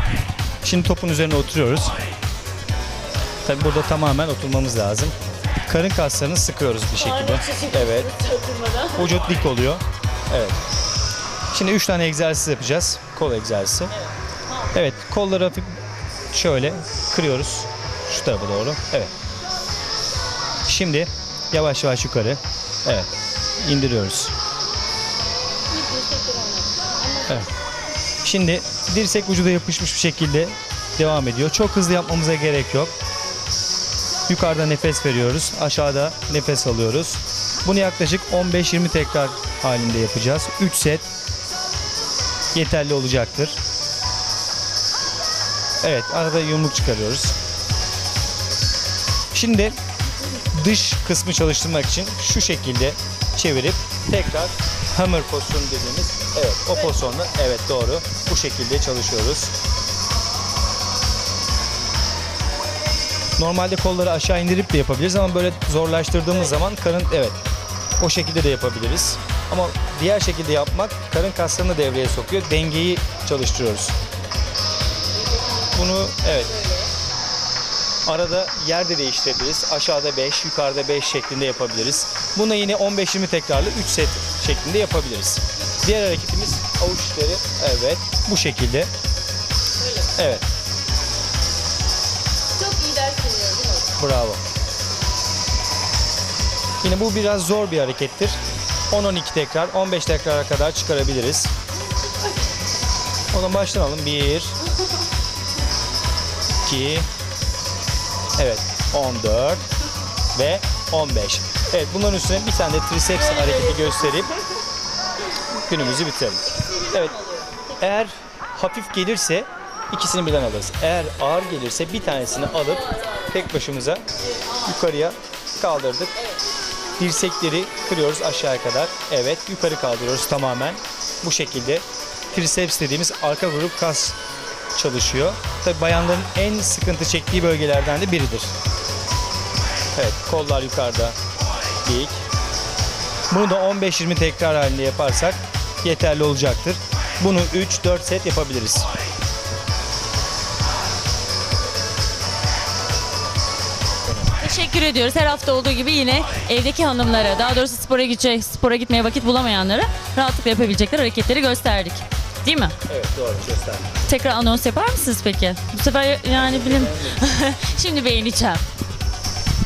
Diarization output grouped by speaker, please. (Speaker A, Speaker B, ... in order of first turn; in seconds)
Speaker A: 0.6-1.9, 3.4-5.1, 5.7-8.1, 8.9-10.6, 11.5-13.9, 14.7-15.8, 16.3-19.1, 20.7-23.1, 23.6-24.3, 28.2-32.9, 34.3-41.1, 42.5-43.6, 45.8-47.4, 49.3-49.8, 50.5-59.5, 63.4-67.4, 68.0-74.0, 75.7-76.6, 78.1-88.9, 90.2-90.5, 94.0-94.4, 96.8-98.4, 98.9-101.5, 103.3-104.6, 106.6-107.1, 108.4-109.6, 110.3-114.3, 115.7-117.2, 117.8-124.0, 124.6-126.2, 127.0-134.2, 134.8-138.5, 139.9-141.2, 141.8-142.2, 143.3-148.9, 162.9-163.9, 166.4-167.3
Speaker B: 7.0-9.1, 25.9-26.6, 92.8-93.8, 154.4-162.8, 164.1-168.6